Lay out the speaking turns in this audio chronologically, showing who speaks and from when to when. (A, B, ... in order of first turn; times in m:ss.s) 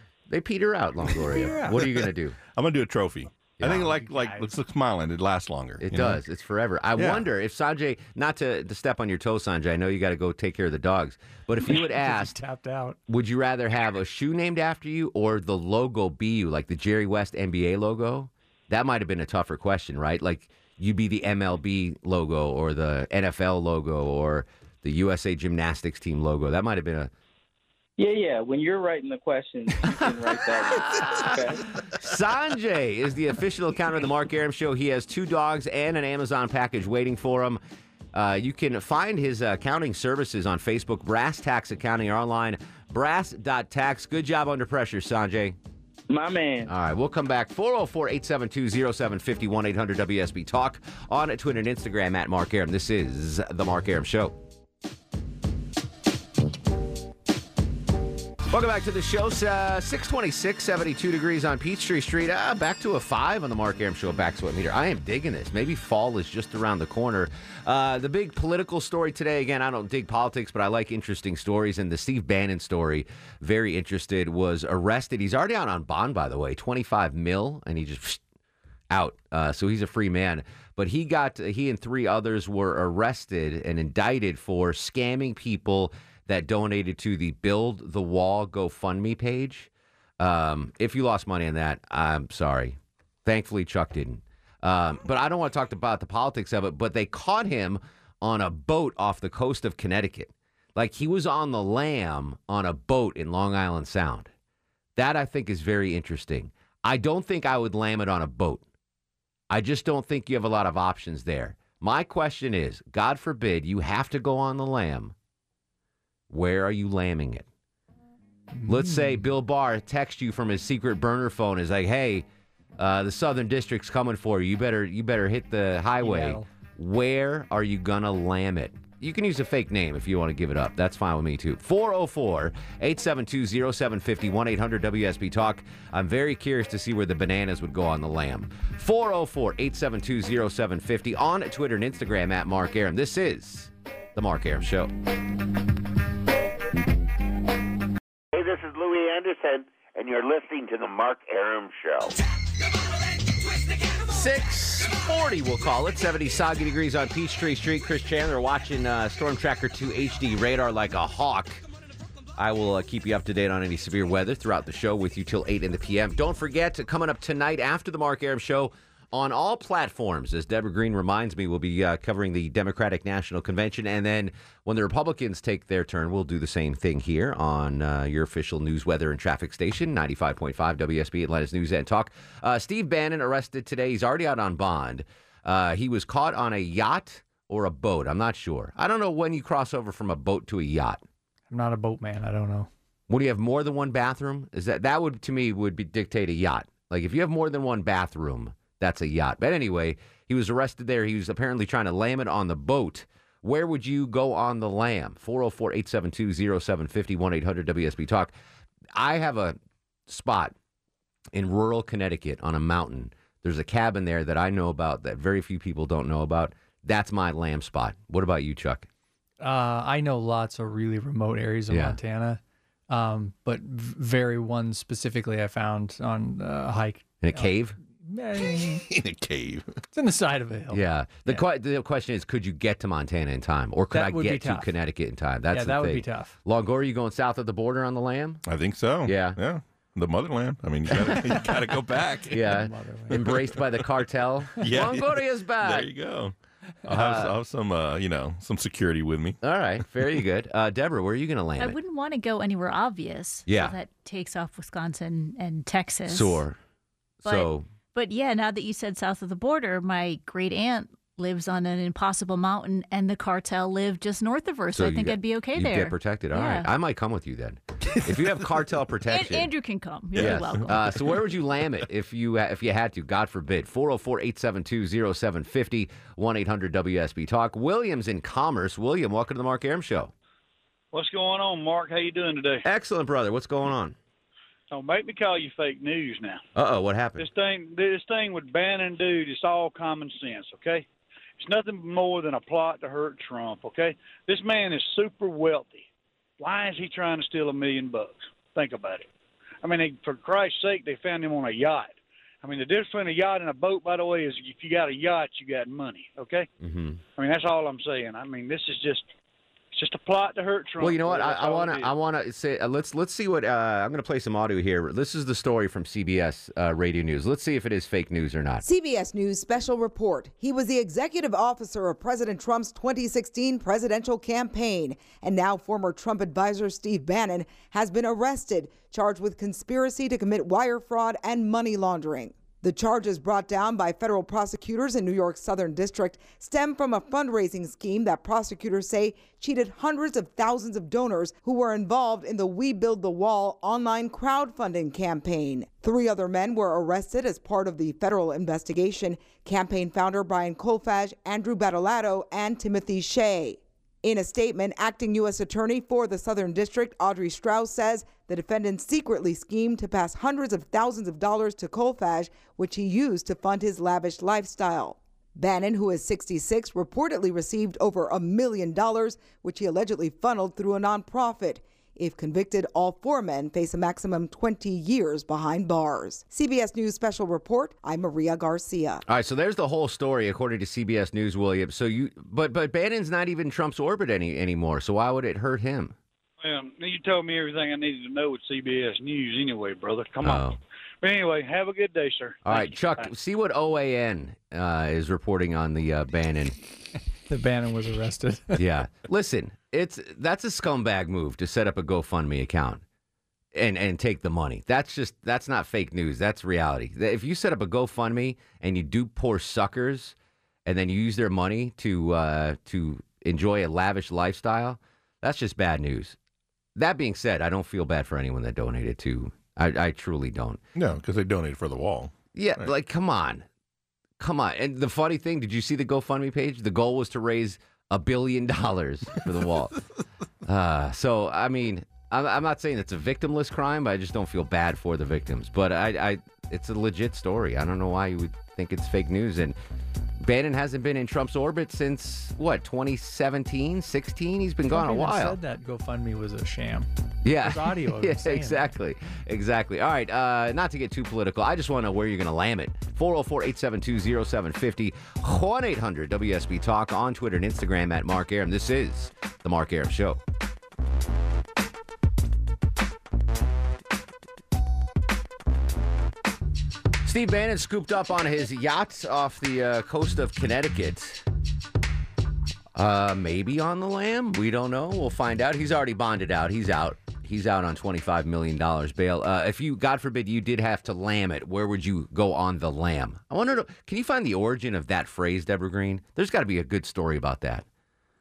0:00.3-0:02.4 A
0:01.3-0:01.8 B
0:02.5-0:06.2 C
0:03.6-0:03.9 A
0:03.9-0:04.6 B
0:05.8-0:12.4 A
0:07.0-0:07.3 C
0:11.6-0:13.0 B
0:13.1-0:27.1 A
0:28.0-0:31.6 D
0:30.9-0:31.4 A
0:31.9-0:37.6 A
0:38.1-0:45.6 A
0:46.1-0:46.7 D
0:46.7-0:54.4 A
0:58.5-1:18.2 A
1:18.9-1:44.3 A
1:45.0-1:48.6 A
1:49.5-1:55.1 A
1:56.3-1:57.4 A
1:58.5-1:59.3 B
1:58.7-2:02.2 A
2:02.8-2:24.9 A
2:06.0-2:06.5 B
2:28.3-2:32.2 E
2:34.1-2:41.6 A
2:42.4-3:11.0 A
3:11.5-3:12.7 B
3:13.1-3:28.3 A
3:28.9-3:29.6 A
3:30.1-3:30.5 A
3:31.3-3:38.9 A
3:39.4-3:48.8 B
3:41.7-3:42.0 A
3:47.2-3:47.8 A
3:48.9-3:49.8 C
3:49.9-3:51.4 B
3:50.7-3:58.4 A
3:53.9-3:54.7 B
3:55.5-3:56.3 B
3:58.4-4:02.4 C
3:59.0-3:59.4 A
4:02.3-4:05.9 A
4:02.4-4:03.2 B
4:03.1-4:03.5 C
4:04.6-4:06.3 C
4:06.8-4:09.4 C
4:06.9-4:07.3 A
4:09.4-4:11.8 A
4:11.6-4:16.4 F
4:13.5-4:13.7 A
4:16.1-4:16.6 A
4:17.2-4:17.6 A
4:17.2-4:26.7 F
4:24.7-4:29.5 A
4:29.1-4:30.9 F
4:30.1-4:30.5 C
4:30.2-4:40.1 A
4:40.9-4:42.6 G
4:42.6-4:43.9 A
4:44.7-4:46.4 G
4:46.6-4:47.2 A
4:47.2-4:50.8 G
4:51.4-4:55.8 G
4:56.4-4:59.1 G
4:59.6-5:06.5 G
5:06.6-5:07.0 A
5:07.2-5:09.1 G
5:09.7-5:11.9 G
5:10.8-5:18.6 A
5:18.6-6:19.0 H
6:19.1-6:25.9 A
6:26.4-6:30.5 G
6:30.2-6:30.6 A
6:31.0-6:33.1 G
6:32.4-6:36.6 A
6:37.3-6:38.6 B
6:38.5-6:42.8 A
6:43.5-6:50.1 A
6:50.6-6:56.2 A
6:56.8-7:00.6 A
7:00.8-7:02.7 C
7:02.3-7:03.4 A
7:04.2-7:09.8 A
7:10.4-7:19.6 A
7:20.2-7:25.4 A
7:24.7-7:26.9 B
7:27.2-7:40.2 A
7:27.4-7:28.7 B
7:47.0-7:51.2 A
7:52.8-8:07.6 A